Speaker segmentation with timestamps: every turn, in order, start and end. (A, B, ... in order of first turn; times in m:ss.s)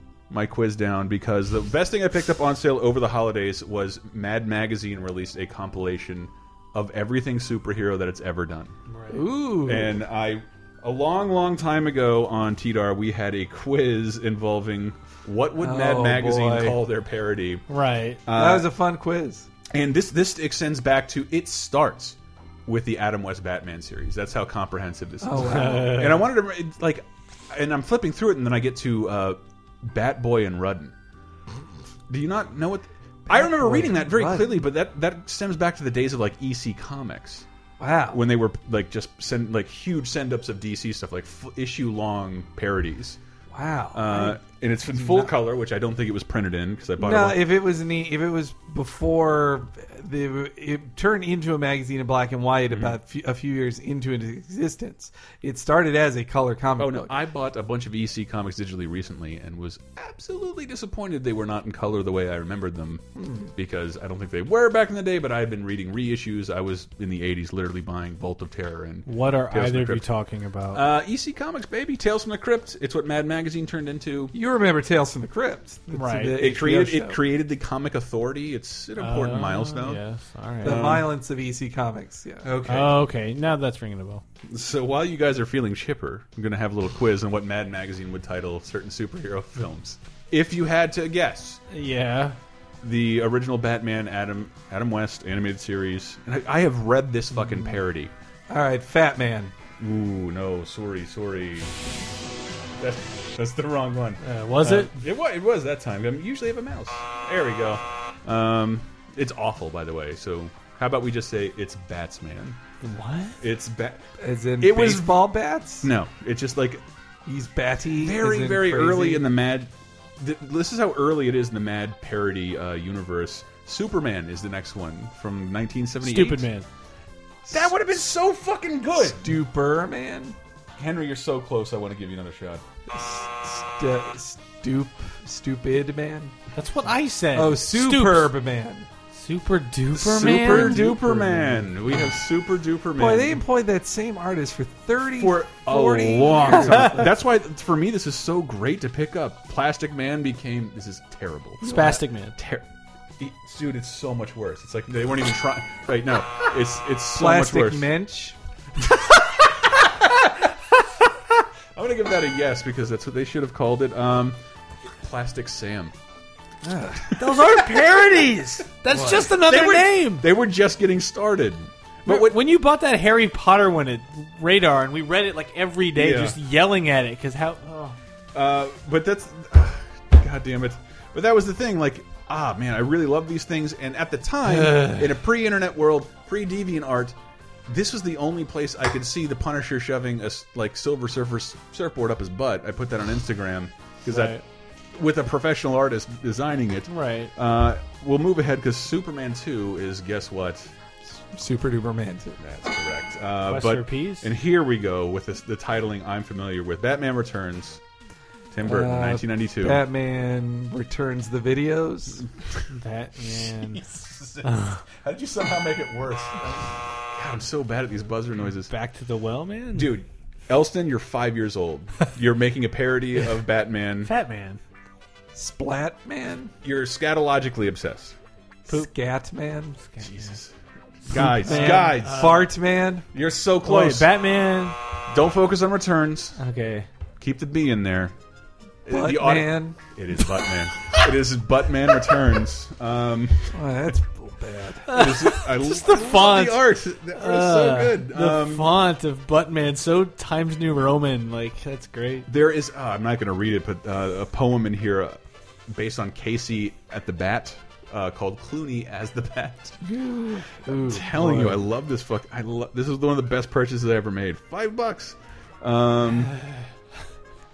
0:00.3-0:08.7 A
0:08.9-0:09.2 B
0:09.1-0:10.0 C
0:09.6-0:17.6 A
0:15.6-0:16.8 C
0:17.7-0:18.2 B
0:18.3-0:18.7 A
0:18.3-0:19.5 C
0:19.7-0:30.9 A
0:25.2-0:26.1 C
0:25.4-0:26.2 B
0:32.1-0:37.5 A
0:33.3-0:34.6 C
0:37.8-0:38.2 C
0:38.1-0:43.2 A
0:43.5-0:44.4 C
0:43.9-0:47.4 A
0:44.9-0:45.3 C
0:47.0-0:57.1 C
0:52.7-0:53.0 A
0:56.8-1:10.1 A
1:03.2-1:03.5 C
1:09.1-1:10.8 B
1:10.7-1:14.4 A
1:14.3-1:17.2 C
1:15.9-1:16.4 B
1:16.4-1:20.0 A
1:19.0-1:20.8 B
1:20.6-1:22.5 C
1:20.6-1:21.1 A
1:22.4-1:22.9 A
1:22.6-1:24.2 B
1:24.5-1:31.6 A
1:31.7-1:32.4 B
1:32.8-1:38.1 A
1:38.5-1:39.5 C
1:39.8-1:41.7 A
1:42.8-1:52.6 A
1:44.2-1:44.9 B
1:52.8-1:53.4 B
1:53.4-1:54.0 A
1:54.2-1:55.9 C
1:54.6-1:56.8 A
1:57.3-1:59.3 C
1:58.0-2:06.5 A
2:06.0-2:06.7 B
2:07.5-2:09.3 A
2:09.0-2:10.4 C
2:10.8-2:12.6 A
2:12.9-2:16.3 C
2:16.6-2:18.3 B
2:17.3-2:18.9 C
2:19.1-2:20.9 B
2:19.9-2:23.4 A
2:20.2-2:21.7 C
2:23.0-2:27.1 C
2:25.2-2:32.7 A
2:26.7-2:27.0 B
2:31.6-2:32.4 B
2:31.6-2:32.0 C
2:33.2-2:37.9 A
2:37.1-2:38.4 C
2:38.8-2:44.4 A
2:45.0-2:45.9 A
2:46.6-2:47.2 C
2:47.2-2:50.2 B
2:48.9-2:49.3 C
2:49.0-2:52.4 A
2:52.1-2:58.0 B
2:56.0-2:56.4 A
2:58.3-3:07.2 A
3:07.7-3:14.4 A
3:14.1-3:14.4 B
3:14.9-3:20.7 A
3:16.9-3:17.3 B
3:21.2-3:22.4 C
3:22.4-3:27.8 A
3:23.4-3:24.3 B
3:28.5-3:29.8 A
3:28.6-3:32.2 C
3:32.7-3:33.8 B
3:33.3-3:38.7 A
3:34.4-3:34.8 B
3:38.7-3:39.9 B
3:39.8-3:44.1 A
3:44.0-3:44.6 B
3:45.4-3:46.5 C
3:46.6-3:48.2 A
3:48.7-3:49.8 C
3:49.9-3:50.4 B
3:50.0-3:50.5 A
3:51.1-3:52.4 A
3:51.2-3:53.1 C
3:51.2-3:52.4 B
3:53.1-3:54.1 A
3:53.6-3:54.8 B
3:55.1-3:56.4 A
3:56.4-3:56.9 B
3:57.2-3:58.1 A
3:58.8-4:03.6 A
3:58.9-3:59.8 C
4:03.5-4:05.0 C
4:04.9-4:12.3 B
4:04.9-4:08.8 A
4:12.3-4:19.8 A
4:19.8-4:21.6 C
4:20.7-4:26.3 A
4:26.4-4:26.6 B